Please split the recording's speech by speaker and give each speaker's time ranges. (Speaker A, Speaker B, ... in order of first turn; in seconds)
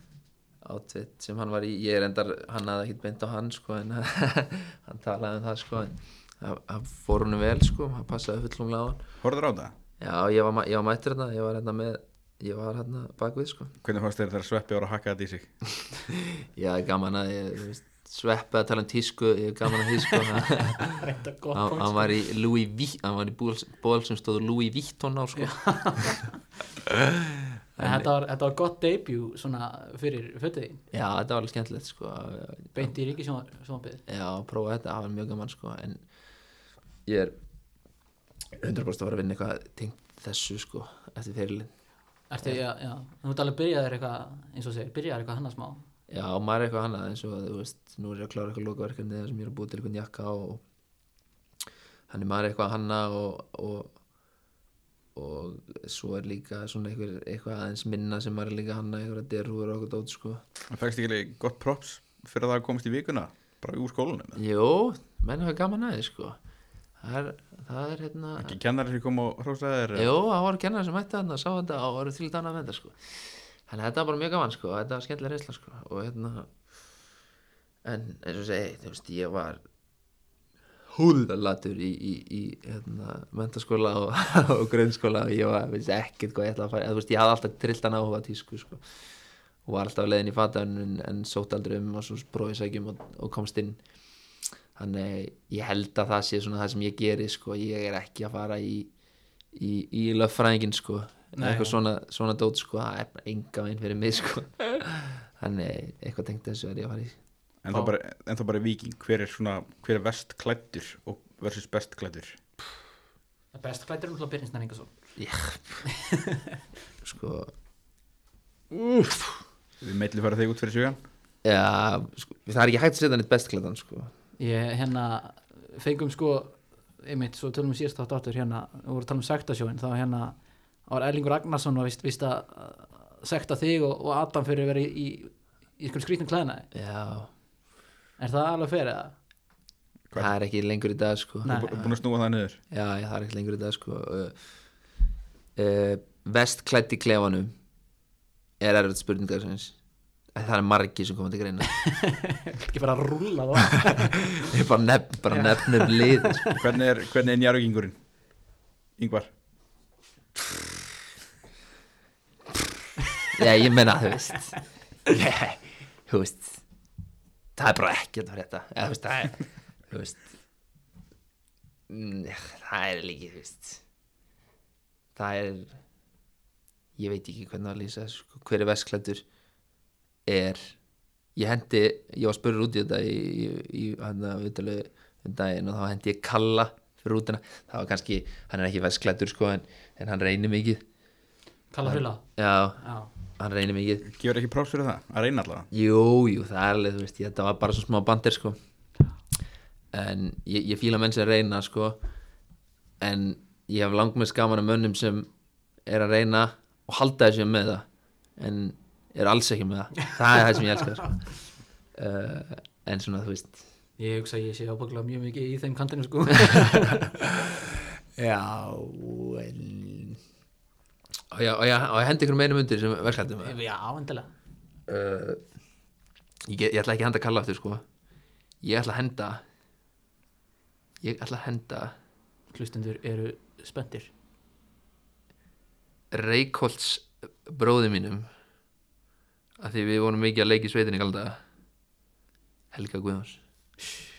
Speaker A: 0.6-9.0, 10.0-13.7, 16.1-20.9, 21.6-26.2, 27.8-28.1, 30.9-32.9, 34.1-36.0, 37.1-37.4, 38.6-41.7, 46.1-50.6, 52.1-53.9, 55.1-60.4, 64.4-66.4, 67.0-68.6, 70.0-76.5, 77.8-79.6, 80.9-89.0, 89.7-93.8, 94.8-98.9, 99.5-107.2, 115.2-115.8, 117.0-117.5, 118.7-119.4, 121.4-124.1, 136.7-137.3, 140.2-142.0, 142.7-144.5, 145.6-147.5, 148.6-149.8, 150.3-151.8, 154.4-156.5, 163.3-166.6, 167.6-170.3, 171.9-173.8, 175.2-175.8, 177.0-179.2, 180.3-180.8, 181.4-190.8, 191.8-192.8, 193.4-194.1, 195.7-198.6, 199.9-202.0, 203.0-205.3, 205.9-207.9, 208.4-211.3, 211.9-213.7, 218.2-220.2, 221.3-223.6, 224.9-225.4, 226.5-227.8, 228.6-229.4, 231.0-231.9, 236.1-238.3, 239.6-241.4, 242.7-243.4
Speaker B: 9.2-9.8, 13.8-15.5, 60.7-64.4, 68.4-70.1, 107.6-112.4, 119.8-121.0, 141.5-142.6, 156.6-158.0, 159.0-159.3, 194.1-195.7
Speaker C: 20.8-22.2, 25.4-26.4, 27.8-30.8, 32.8-34.0, 42.3-45.9, 101.3-101.8, 113.5-115.0, 116.0-116.4, 124.4-136.7, 138.2-139.1, 151.8-154.3, 155.3-156.6, 191.7-192.2, 192.8-193.1, 214.0-217.1, 223.4-224.3, 232.5-234.1